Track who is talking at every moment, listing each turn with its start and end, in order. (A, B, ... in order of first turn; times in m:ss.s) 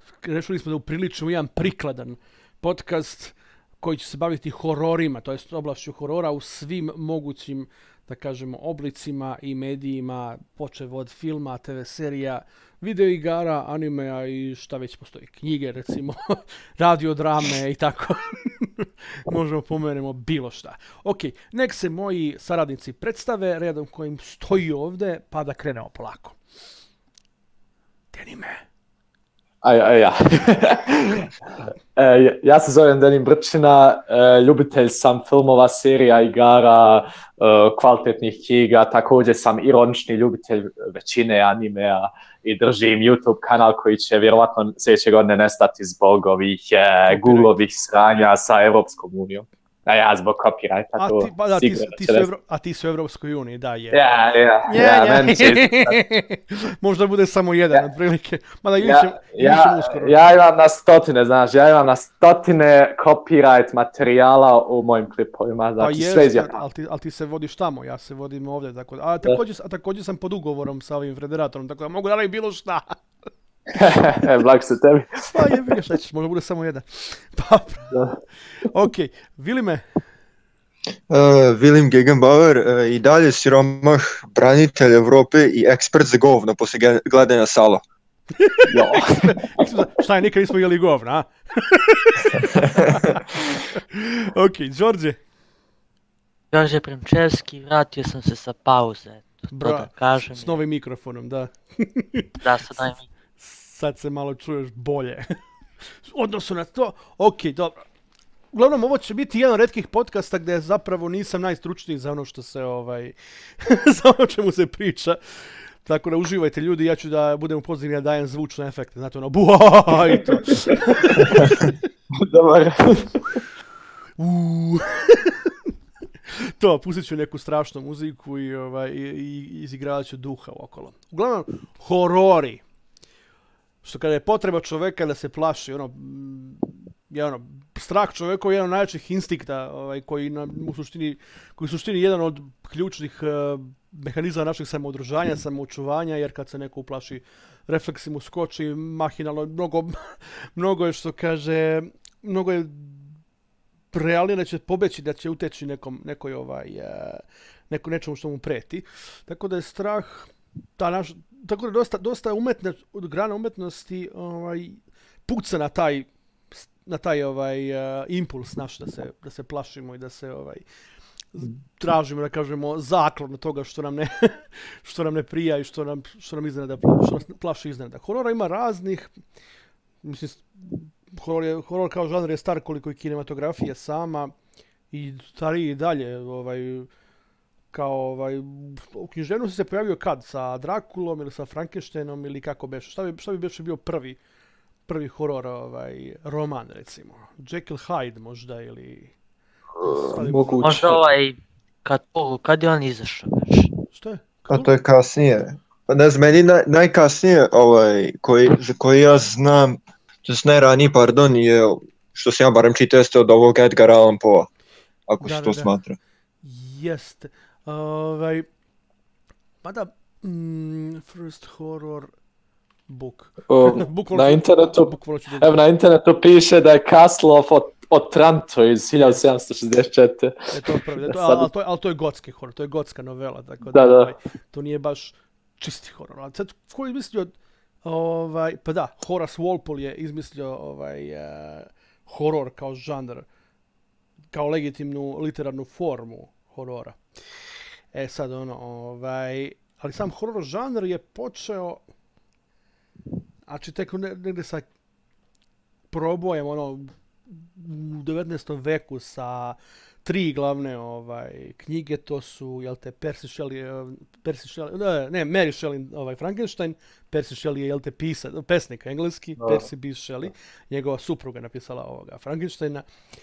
0:00.2-0:26.4 A
0:28.1-0:28.6 A
0:29.6-0:31.3 B
0:32.0-0:52.3 B
0:47.1-0:47.6 A
0:51.0-0:54.0 A
0:53.9-0:56.0 B
0:54.6-1:00.2 A
0:58.8-1:06.6 B
1:05.8-1:13.0 A
1:13.7-1:15.2 B
1:15.3-1:18.0 A
1:18.6-1:19.8 A
1:21.1-1:27.8 C
1:28.4-1:35.2 A
1:28.7-1:29.6 B
1:32.4-1:32.9 C
1:36.5-1:40.5 D
1:39.5-1:42.4 A
1:42.4-1:43.0 D
1:43.4-1:45.3 A
1:46.0-1:47.8 A
1:48.5-2:01.7 A
2:02.2-2:03.2 B
2:04.2-2:05.5 A
2:06.3-2:12.6 A
2:13.8-2:33.1 A
2:33.9-2:50.6 A
2:51.3-2:59.1 A
3:00.0-3:04.3 A
3:04.9-3:06.9 A
3:07.7-3:14.2 A
3:14.9-3:19.1 A
3:19.8-3:21.0 B
3:19.8-3:21.0 A
3:20.6-3:23.7 D
3:23.9-3:24.7 A
3:24.5-3:34.5 C
3:35.1-3:36.0 C
3:35.2-3:35.7 A
3:36.4-3:38.4 A
3:39.6-3:42.1 A
3:42.9-3:45.6 A
3:43.5-3:51.5 B
3:49.0-3:49.2 A
3:50.5-4:03.2 A
3:53.7-3:54.1 B
4:04.3-4:07.0 A
4:07.9-4:11.8 A
4:13.4-4:14.7 A
4:15.9-4:32.8 A
4:29.4-4:29.6 B